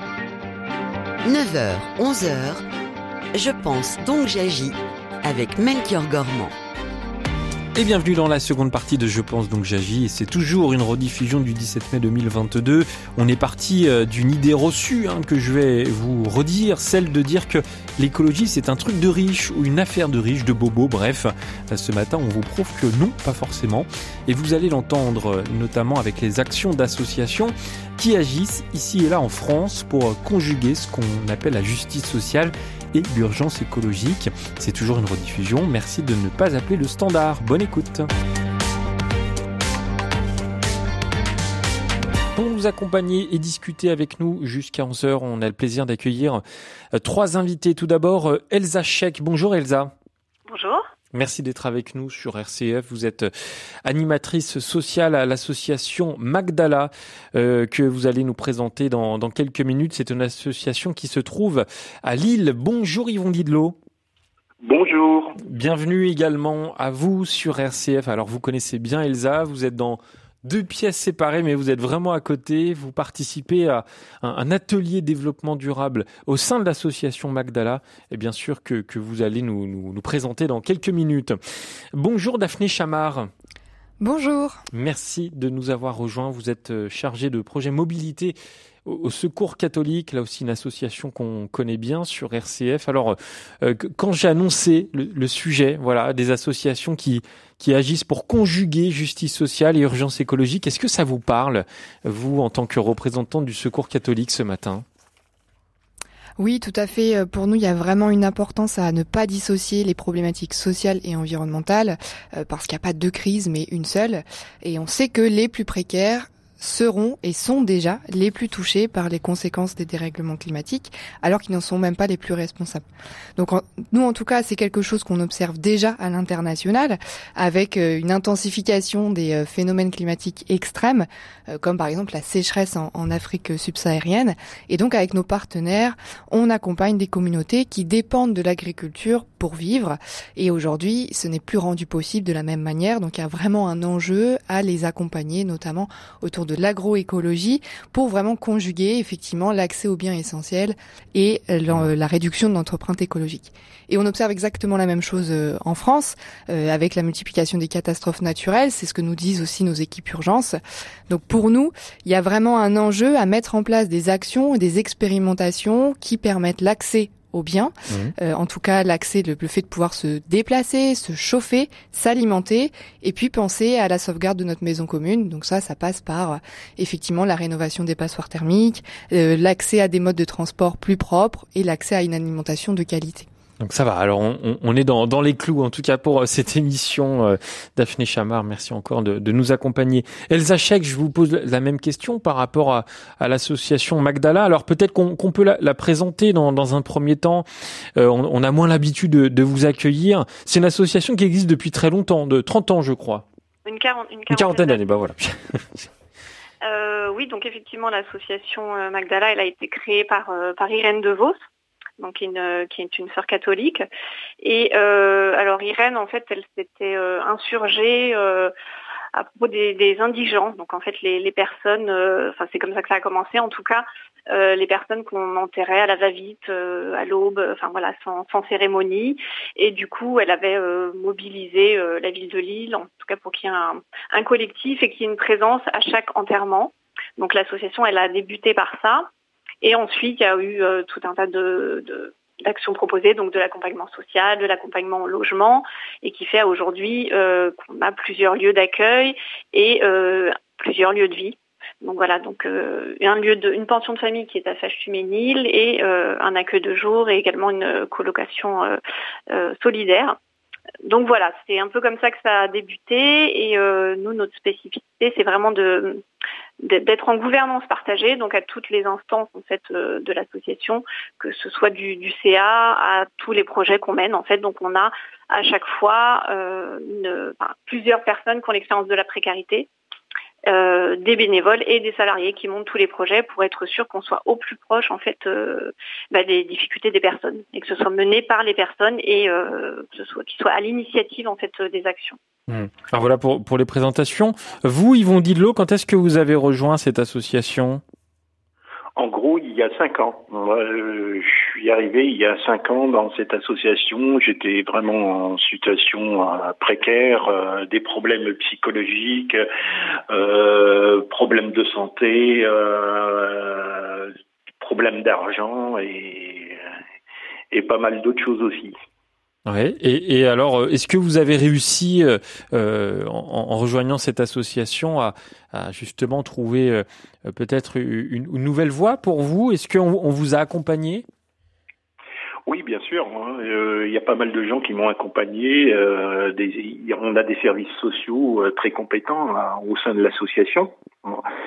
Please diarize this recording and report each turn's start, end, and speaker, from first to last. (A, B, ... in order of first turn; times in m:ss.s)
0:01.2-0:02.6 A
0:03.3-0:06.5 A
0:07.8-0:38.1 B
0:42.4-0:46.4 B
0:46.9-0:49.9 B
0:50.5-0:50.8 C
0:51.1-0:53.3 B
0:53.8-1:03.8 B
1:04.6-1:05.4 D
1:05.4-1:21.4 B
1:21.9-1:23.3 B
1:24.0-1:24.6 E
1:24.7-1:44.8 B
1:46.4-2:02.8 E
2:03.4-2:40.6 E
2:41.1-3:03.3 E
3:03.6-3:23.2 B
3:23.6-3:24.8 C
3:24.3-3:25.9 B
3:26.6-3:31.4 C
3:32.0-3:33.8 C
3:34.4-3:38.5 C
3:39.1-3:59.1 C
3:59.6-4:18.8 C
4:19.3-4:20.2 C
4:20.8-4:26.0 C
4:26.6-4:39.7 C
4:40.5-4:52.2 C
4:52.5-4:57.8 B
4:59.0-5:09.4 D
5:10.1-5:16.6 D
5:17.5-5:18.7 D
5:19.5-5:31.1 B
5:32.5-5:41.2 D